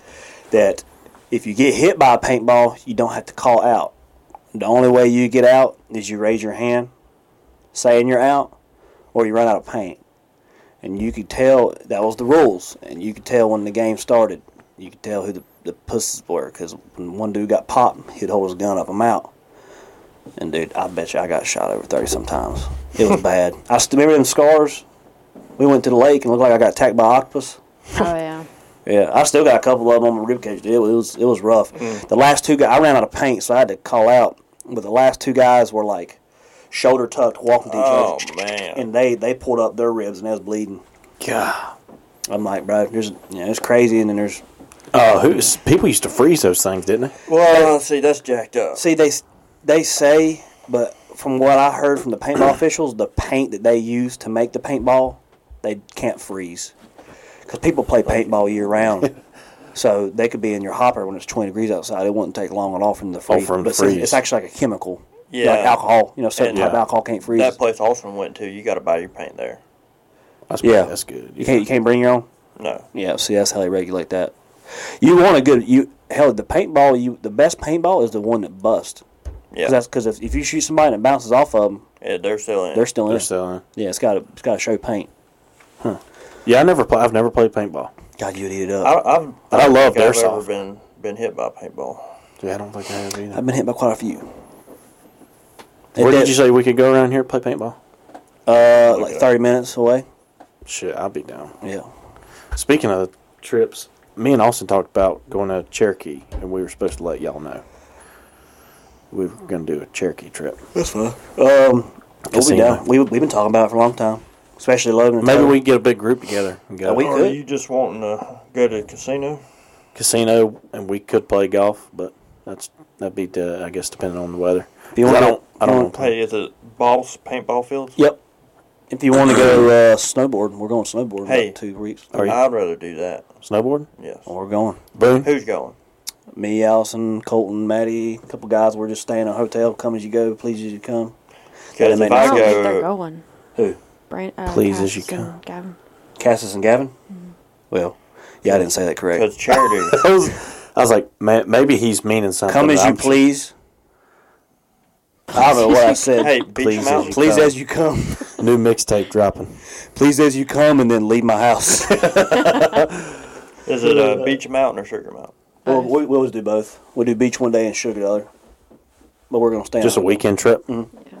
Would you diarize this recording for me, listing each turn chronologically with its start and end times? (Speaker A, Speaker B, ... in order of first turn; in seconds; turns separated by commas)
Speaker A: 0.5-3.9, Speaker A: 4.5-6.9, Speaker A: 7.7-8.5, Speaker A: 9.1-10.0, Speaker A: 10.8-19.3, Speaker A: 20.4-24.8, Speaker A: 25.6-27.6, Speaker B: 27.9-28.5, Speaker A: 28.9-36.2, Speaker A: 36.7-40.8, Speaker C: 37.6-38.9, Speaker D: 41.2-41.7, Speaker A: 42.3-44.4, Speaker D: 44.9-47.1, Speaker C: 47.2-48.8, Speaker A: 48.7-56.7, Speaker A: 57.5-59.1, Speaker C: 58.0-58.3, Speaker A: 59.7-67.6, Speaker D: 63.3-64.2, Speaker C: 65.3-65.8, Speaker C: 66.4-66.7, Speaker D: 66.5-66.8, Speaker C: 67.3-69.6, Speaker D: 70.5-71.7, Speaker A: 70.6-72.3, Speaker C: 72.6-72.8, Speaker A: 72.9-79.0, Speaker A: 79.6-81.8, Speaker C: 82.0-82.9, Speaker A: 82.7-85.1, Speaker D: 83.1-83.6, Speaker D: 85.8-87.9, Speaker A: 88.2-89.0, Speaker C: 88.8-92.0, Speaker D: 89.5-90.5, Speaker D: 92.4-93.4, Speaker A: 93.3-94.3, Speaker A: 95.9-96.4, Speaker D: 96.0-97.8, Speaker A: 98.5-100.0, Speaker C: 98.7-99.3, Speaker D: 100.7-101.5, Speaker A: 101.6-101.9, Speaker D: 102.5-107.6, Speaker D: 109.1-110.6, Speaker A: 110.7-115.6, Speaker D: 112.3-112.8, Speaker D: 115.2-117.1, Speaker A: 116.8-117.4, Speaker C: 117.0-119.4, Speaker D: 119.9-126.1, Speaker A: 124.9-125.9, Speaker C: 125.9-128.0, Speaker A: 128.9-132.1, Speaker C: 131.2-131.5, Speaker D: 132.1-132.4, Speaker C: 132.2-133.3, Speaker D: 133.4-133.9, Speaker C: 134.0-134.3, Speaker A: 134.3-134.8, Speaker D: 134.9-135.3, Speaker C: 135.2-135.8, Speaker A: 136.3-141.1, Speaker A: 141.8-142.7, Speaker C: 141.8-142.9, Speaker B: 142.1-143.2, Speaker B: 144.1-145.8, Speaker D: 144.5-145.3, Speaker A: 146.2-146.9, Speaker A: 147.7-149.3, Speaker C: 149.1-150.0, Speaker D: 149.5-153.2, Speaker A: 152.5-153.5, Speaker B: 155.3-156.3, Speaker A: 155.3-158.4, Speaker C: 156.1-157.2, Speaker D: 156.5-157.5, Speaker D: 158.4-159.6, Speaker A: 159.9-162.7, Speaker D: 161.9-163.2, Speaker C: 163.7-165.3, Speaker A: 163.8-164.4, Speaker B: 165.6-165.9, Speaker A: 165.7-168.3, Speaker A: 169.3-170.9, Speaker D: 169.8-170.6